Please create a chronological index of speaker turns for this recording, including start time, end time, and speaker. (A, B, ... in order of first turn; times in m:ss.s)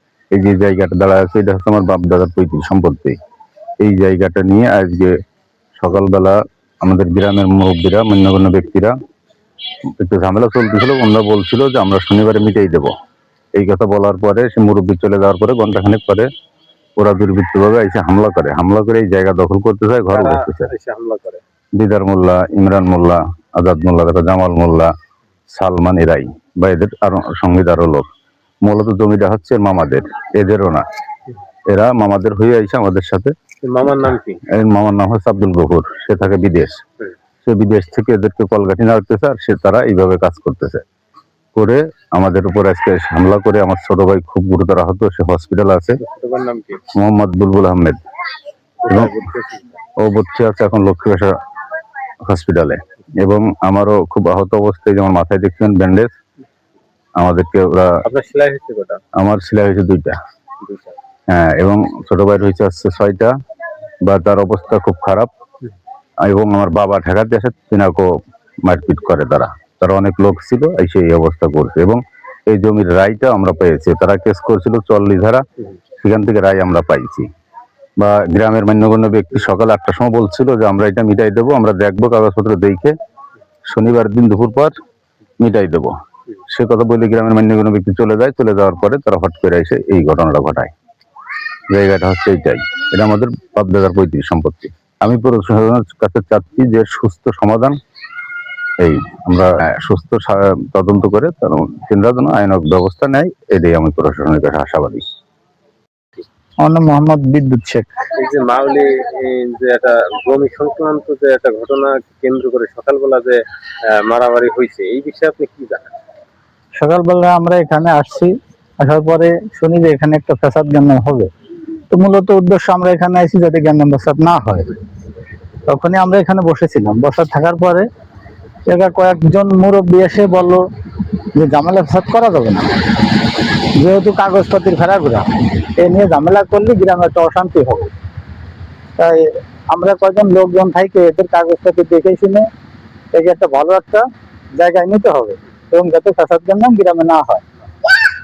0:00.3-0:03.2 A
0:03.8-0:05.2 A
0:05.8-0:08.9 A
0:10.0-0:12.9 A
0:13.5-0:16.3 A
0:17.0-0:20.7 A
0:20.1-0:21.4 B
0:21.8-0:24.9 A
0:25.5-0:28.1 A
0:28.6-0:30.8 A
0:31.7-0:33.3 A
0:33.6-0:34.4 B
0:34.5-0:36.8 A
0:37.4-0:40.8 A
0:41.5-0:46.0 A
0:46.0-0:46.8 B
0:46.9-0:48.0 A
0:48.8-0:49.7 B
0:48.9-0:49.1 A
0:50.0-0:51.3 A
0:52.2-0:56.1 A
0:57.2-0:58.0 A
0:58.0-0:59.0 B
0:59.2-1:00.2 A
1:00.6-1:01.0 B
1:01.3-1:03.3 A
1:04.0-1:05.3 A
1:06.2-1:08.1 A
1:08.6-1:15.4 A
1:16.0-1:17.3 A
1:18.0-1:22.9 A
1:23.7-1:24.7 A
1:25.4-1:25.9 A
1:26.5-1:30.7 A
1:31.7-1:37.8 A
1:38.8-1:45.0 A
1:46.6-1:47.9 C
1:48.2-1:55.9 B
1:56.8-2:01.3 C
2:01.9-2:04.7 C
2:05.7-2:07.8 C
2:08.7-2:10.6 C
2:11.3-2:12.7 C
2:13.8-2:17.9 C
2:19.0-2:22.4 C
2:23.1-2:24.0 C
2:24.6-2:27.4 C